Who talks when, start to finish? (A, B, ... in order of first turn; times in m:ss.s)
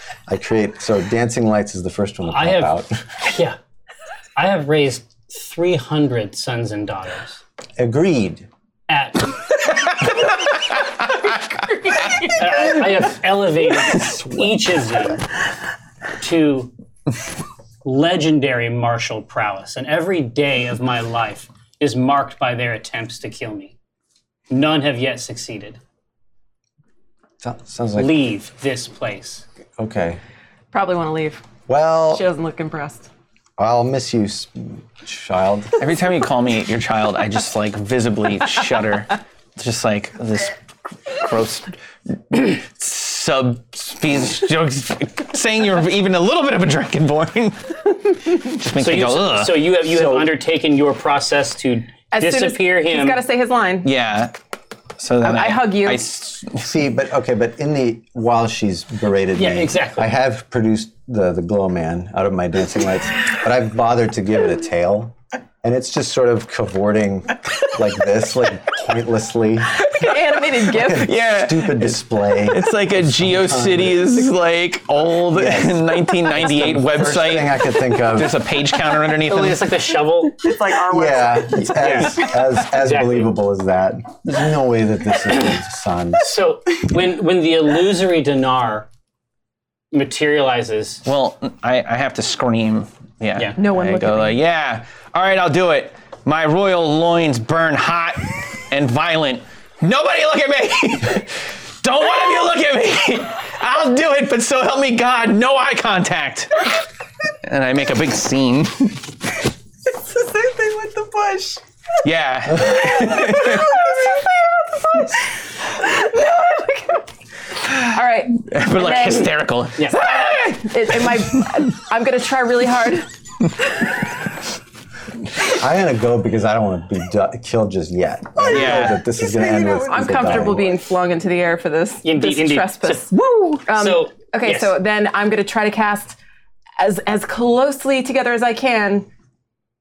0:00.3-0:03.1 A
0:02.3-0:03.6 B
0:04.4-0:07.4 B
0:07.8-0:08.5 A
0:08.9-0:10.0 B
0:12.3-0:15.2 B
0:13.9-0:14.8 A
0:16.2-0:16.7 B
0:17.8-0:23.7 B
0:24.5-0:25.8 B
0:27.4-0:28.1 A
0:28.0-0:29.4 B
0:29.8-0:30.2 A
0:30.7-0:31.4 C
0:31.7-0:32.2 A
0:32.1-0:33.1 C
0:33.6-0:35.8 A
0:35.8-0:41.8 D
0:42.3-0:49.6 D
0:48.8-0:53.2 B
0:49.9-0:50.3 A
0:52.1-0:53.9 C
0:53.8-0:54.3 D
0:55.0-0:56.7 D
0:55.2-0:56.0 C
0:56.6-1:10.1 A
0:59.4-1:00.1 B
1:09.8-1:11.1 C
1:10.6-1:14.1 A
1:11.0-1:19.7 D
1:15.3-1:18.4 A
1:19.2-1:20.5 B
1:20.4-1:21.8 E
1:20.9-1:26.2 A
1:21.7-1:23.3 B
1:26.2-1:28.9 B
1:29.9-1:31.0 B
1:31.0-1:46.7 D
1:33.6-1:34.4 C
1:47.4-1:49.0 D
1:49.9-1:51.6 E
1:52.0-1:53.8 D
1:53.0-1:54.2 E
1:55.7-1:57.0 C
1:57.7-1:59.3 C
1:58.4-2:01.7 D
1:59.8-2:00.0 B
2:00.3-2:03.1 C
2:05.4-2:10.8 A
2:08.4-2:10.4 E
2:08.5-2:09.0 D
2:09.8-2:16.2 C
2:12.0-2:14.7 B
2:16.8-2:19.1 C